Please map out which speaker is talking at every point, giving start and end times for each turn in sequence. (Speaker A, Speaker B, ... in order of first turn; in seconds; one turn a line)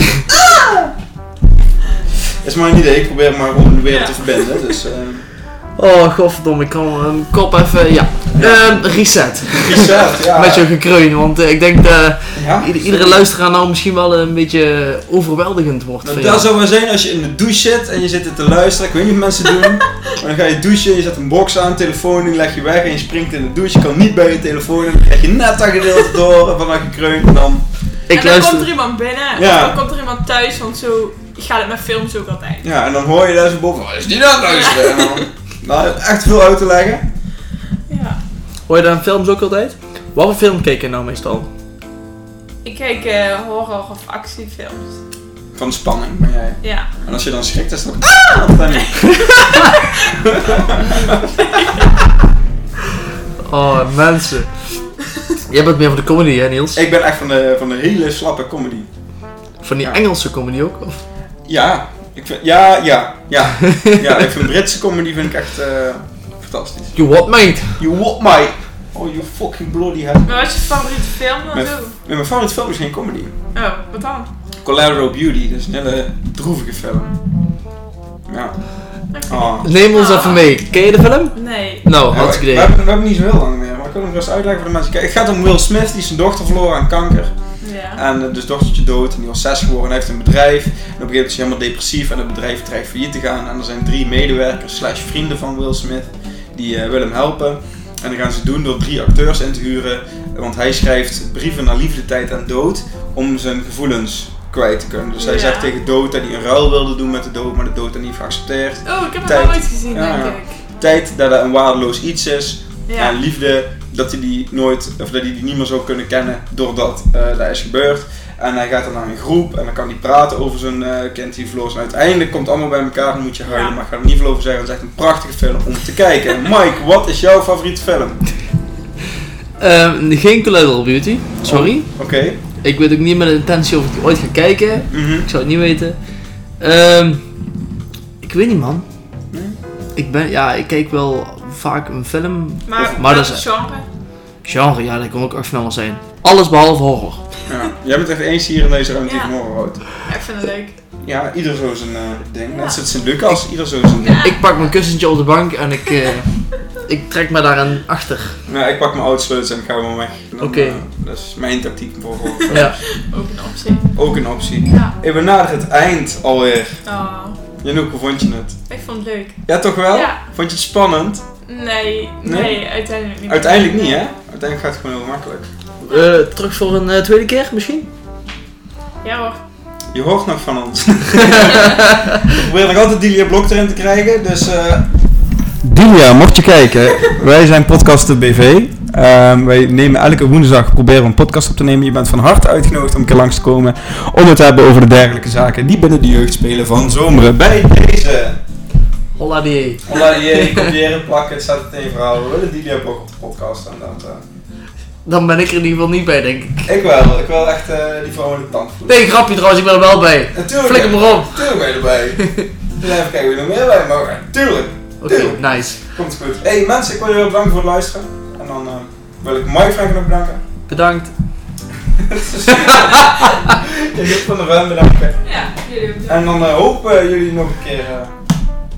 Speaker A: 0.2-0.9
Speaker A: 2.4-5.3
Speaker B: 3.9-4.7
Speaker C: 5.8-16.5
Speaker A: 8.3-8.9
Speaker A: 9.5-10.7
Speaker A: 12.3-13.3
Speaker A: 16.0-27.6
Speaker B: 28.1-32.6
Speaker C: 28.1-28.7
Speaker A: 29.4-29.8
Speaker A: 32.6-37.0
Speaker B: 34.5-35.2
Speaker B: 37.9-38.2
Speaker C: 38.7-41.5
Speaker B: 42.6-45.0
Speaker A: 45.5-49.3
Speaker B: 46.6-46.9
Speaker B: 48.7-50.2
Speaker C: 49.4-49.7
Speaker A: 50.1-51.3
Speaker B: 51.4-51.9
Speaker C: 53.4-54.5
Speaker C: 55.4-56.8
Speaker A: 56.7-58.9
Speaker C: 59.6-61.0
Speaker A: 61.5-67.0
Speaker C: 63.7-64.0
Speaker C: 67.0-67.8
Speaker A: 67.8-70.6
Speaker B: 70.3-72.0
Speaker A: 71.5-73.3
Speaker B: 73.5-74.3
Speaker A: 74.6-77.2
Speaker A: 78.3-78.6
Speaker B: 79.1-80.4
Speaker A: 79.3-79.7
Speaker C: 79.6-82.7
Speaker B: 81.3-81.8
Speaker A: 82.1-87.3
Speaker B: 87.6-88.0
Speaker A: 88.0-128.2
Speaker B: 105.2-105.7
Speaker B: 108.8-110.6
Speaker B: 112.9-113.2
Speaker B: 123.5-123.8
Speaker C: 129.6-131.9
Speaker A: 131.5-132.4
Speaker C: 132.6-136.0
Speaker A: 134.9-135.3
Speaker C: 136.6-137.2
Speaker C: 138.2-138.8
Speaker A: 139.3-139.6
Speaker C: 140.0-143.4
Speaker B: 142.7-143.8
Speaker C: 144.4-147.2
Speaker A: 147.5-149.8
Speaker B: 149.1-149.3
Speaker B: 149.9-150.8
Speaker A: 151.0-154.3
Speaker B: 152.5-152.8
Speaker B: 154.0-154.7
Speaker C: 154.2-158.4
Speaker A: 158.5-162.8
Speaker C: 160.4-160.8
Speaker B: 162.4-163.9
Speaker A: 163.9-166.8
Speaker B: 164.7-164.9
Speaker B: 166.8-167.4
Speaker A: 167.6-168.6
Speaker B: 168.7-169.4
Speaker A: 169.5-171.2
Speaker B: 169.9-170.2
Speaker B: 171.5-174.0
Speaker A: 172.2-172.6
Speaker A: 173.3-175.5
Speaker C: 175.8-177.9
Speaker B: 179.0-179.4
Speaker A: 179.9-184.9
Speaker A: 185.6-198.4
Speaker C: 199.2-200.7
Speaker A: 199.9-204.2
Speaker C: 205.1-206.7
Speaker A: 206.7-209.0
Speaker C: 208.9-211.5
Speaker A: 210.3-212.2
Speaker C: 212.2-212.5
Speaker A: 212.8-220.4
Speaker C: 215.0-215.8
Speaker C: 220.7-221.1
Speaker A: 222.0-225.2
Speaker C: 222.6-223.3
Speaker B: 225.2-226.3
Speaker A: 226.1-228.2